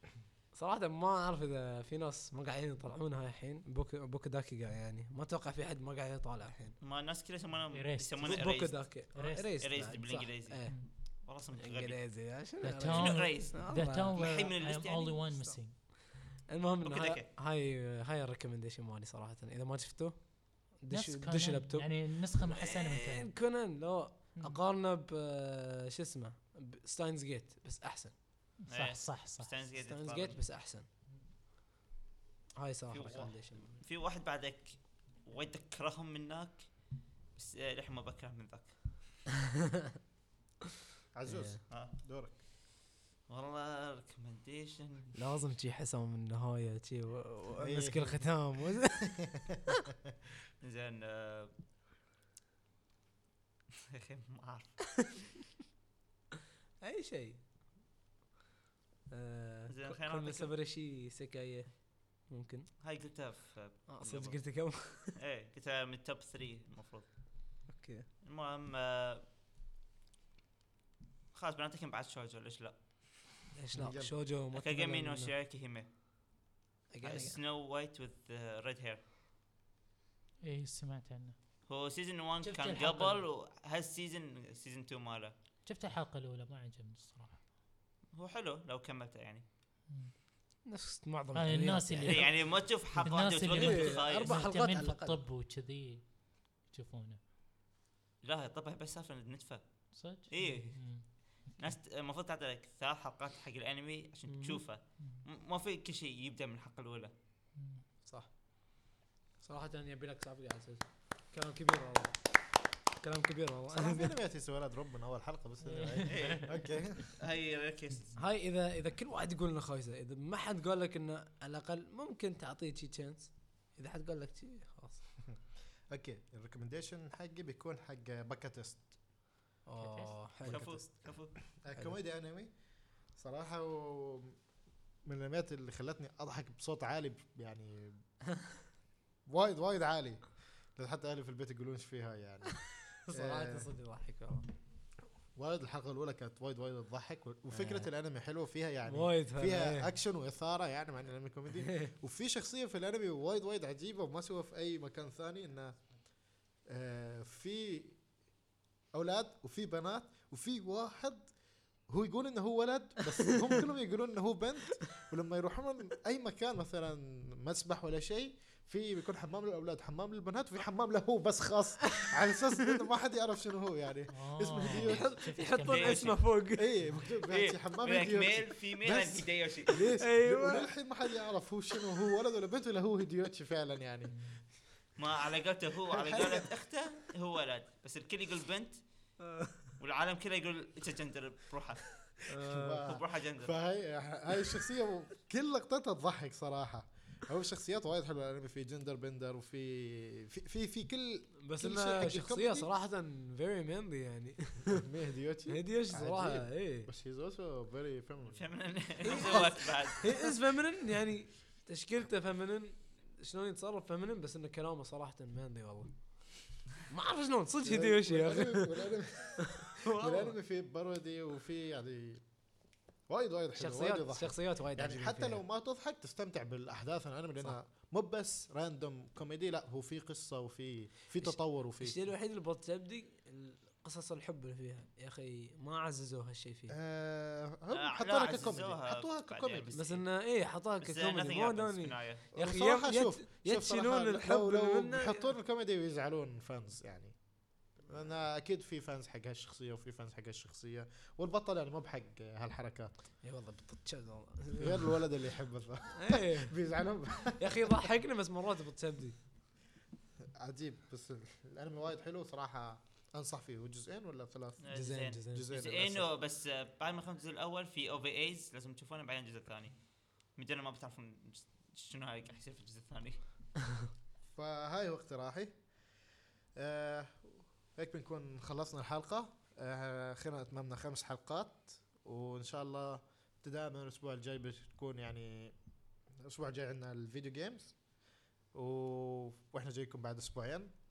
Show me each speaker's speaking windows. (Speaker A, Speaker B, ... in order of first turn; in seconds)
Speaker A: 0.5-6.8, 8.2-14.2, 16.2-28.1, 29.8-30.9, 32.6-33.8, 41.3-41.6, 45.1-49.2, 56.8-57.4, 59.1-62.7, 63.9-65.2, 67.7-68.1, 73.5-75.3, 76.9-77.4, 90.7-92.3, 93.5-95.2, 104.3-104.6, 109.4-112.3, 113.0-114.2, 118.2-125.0, 129.7-131.1, 143.1-144.5, 147.5-147.9, 148.9-149.9, 174.7-176.8, 179.7-180.7, 189.2-189.6, 192.3-192.8, 201.4-204.8, 205.5-206.9, 209.0-218.9, 219.6-220.4, 223.6-225.4, 231.2-236.8, 239.7-245.3, 253.2-255.0, 256.0-256.5, 257.4-259.2, 264.7-265.4
Speaker B: 6.8-12.0, 12.9-13.6, 14.2-15.6, 16.8-17.3, 22.6-23.3, 28.7-30.4, 32.9-36.7, 37.4-38.8, 41.7-41.9, 43.3-45.1, 50.6-51.5, 53.9-55.0, 59.7-60.5, 62.8-64.4, 65.2-67.1, 68.2-69.2, 71.3-72.8, 74.5-75.9, 77.0-79.0, 81.7-85.3, 88.1-89.4, 92.0-94.4, 98.2-99.6, 100.3-107.1, 116.1-118.2, 130.4-131.3, 175.7-176.2, 177.3-179.8, 185.0-188.8, 189.8-191.9, 192.8-193.5, 208.3-210.3, 237.7-240.0, 240.8-242.2, 264.6-269.8, 270.4-273.2
Speaker C: 7.7-8.4, 9.2-9.5, 12.6-15.8, 20.9-23.3, 28.6-29.5, 80.4-81.4, 82.4-83.2, 85.7-87.4, 91.3-97.2, 100.0-101.8, 107.6-107.8, 115.6-116.6, 129.8-130.2, 174.1-176.2, 184.1-184.4
Speaker D: 41.1-42.4, 47.6-48.3, 49.2-49.6, 73.7-74.1, 113.7-117.1, 125.9-129.0, 130.5-130.7, 131.6-132.5, 133.2-134.4, 135.1-138.0, 139.3-143.7, 145.4-155.8, 156.7-158.0, 158.9-161.3, 161.9-175.1, 176.5-184.2, 185.9-186.5, 192.3-202.7, 204.7-208.5, 209.0-209.6, 217.6-222.2, 223.1-232.0, 236.7-239.8, 242.3-247.2, 247.8-252.9, 254.6-257.8, 260.4-264.6, 265.3-266.1, 274.4-275.6, 276.6-285.6, 286.2-287.8, 288.5-290.7